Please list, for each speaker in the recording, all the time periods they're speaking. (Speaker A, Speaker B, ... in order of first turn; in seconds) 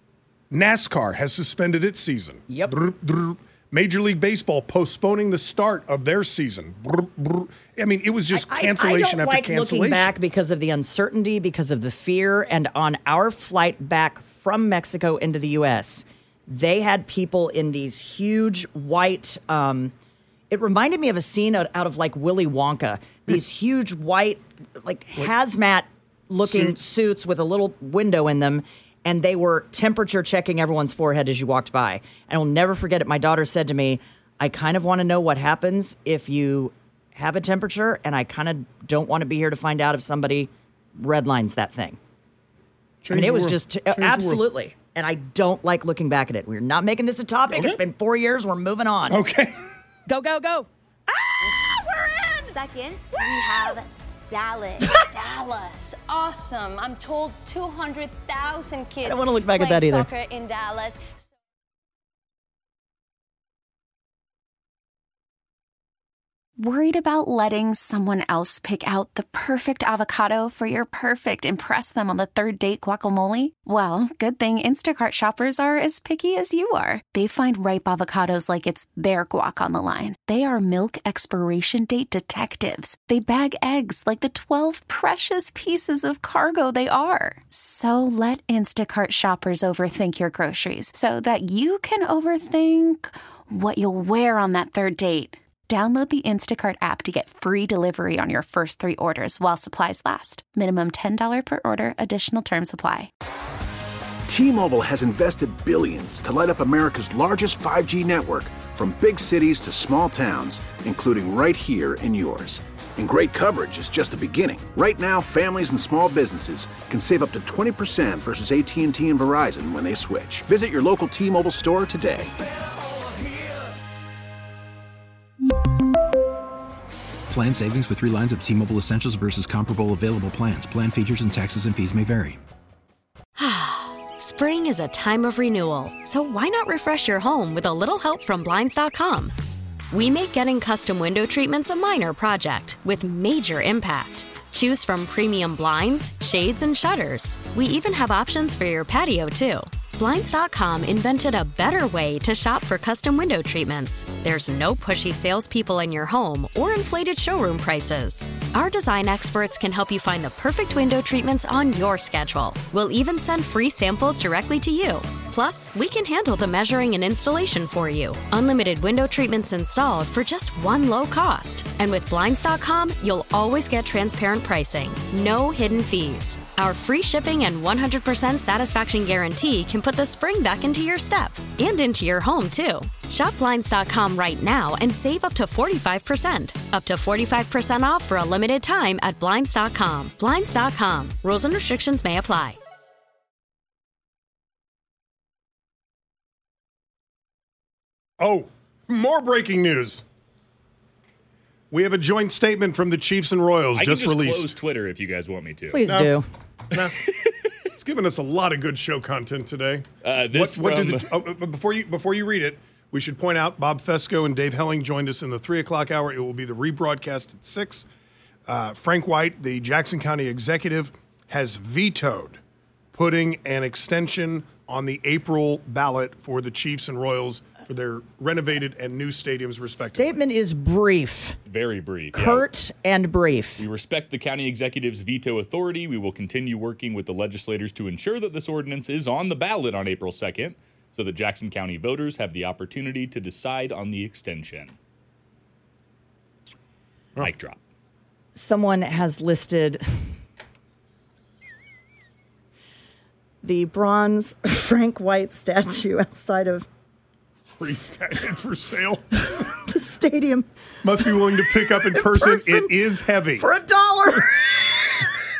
Speaker A: 0.5-10.1, 26.4-26.8, 43.0-44.4, 47.5-47.8, 49.1-49.6, 198.2-200.0, 201.7-204.5, 205.9-206.2, 206.7-207.1, 207.7-217.9, 218.5-222.4, 222.9-230.2, 257.5-259.5, 260.8-263.5
Speaker B: 2.5-2.7, 8.3-19.9, 20.5-42.0, 43.1-49.2, 50.1-52.5, 59.0-60.1, 205.7-206.3, 229.8-231.4, 232.1-233.6, 248.3-250.1, 253.4-256.7, 259.3-260.5, 261.9-262.7, 263.4-265.1
Speaker C: 52.5-61.2
Speaker D: 66.6-103.1
Speaker E: 104.3-122.3
Speaker F: 127.3-132.4
Speaker G: 133.3-139.3, 139.9-192.6
Speaker H: 203.7-205.8, 206.7-207.3, 210.0-211.1, 231.5-232.5, 233.6-244.7, 247.2-247.6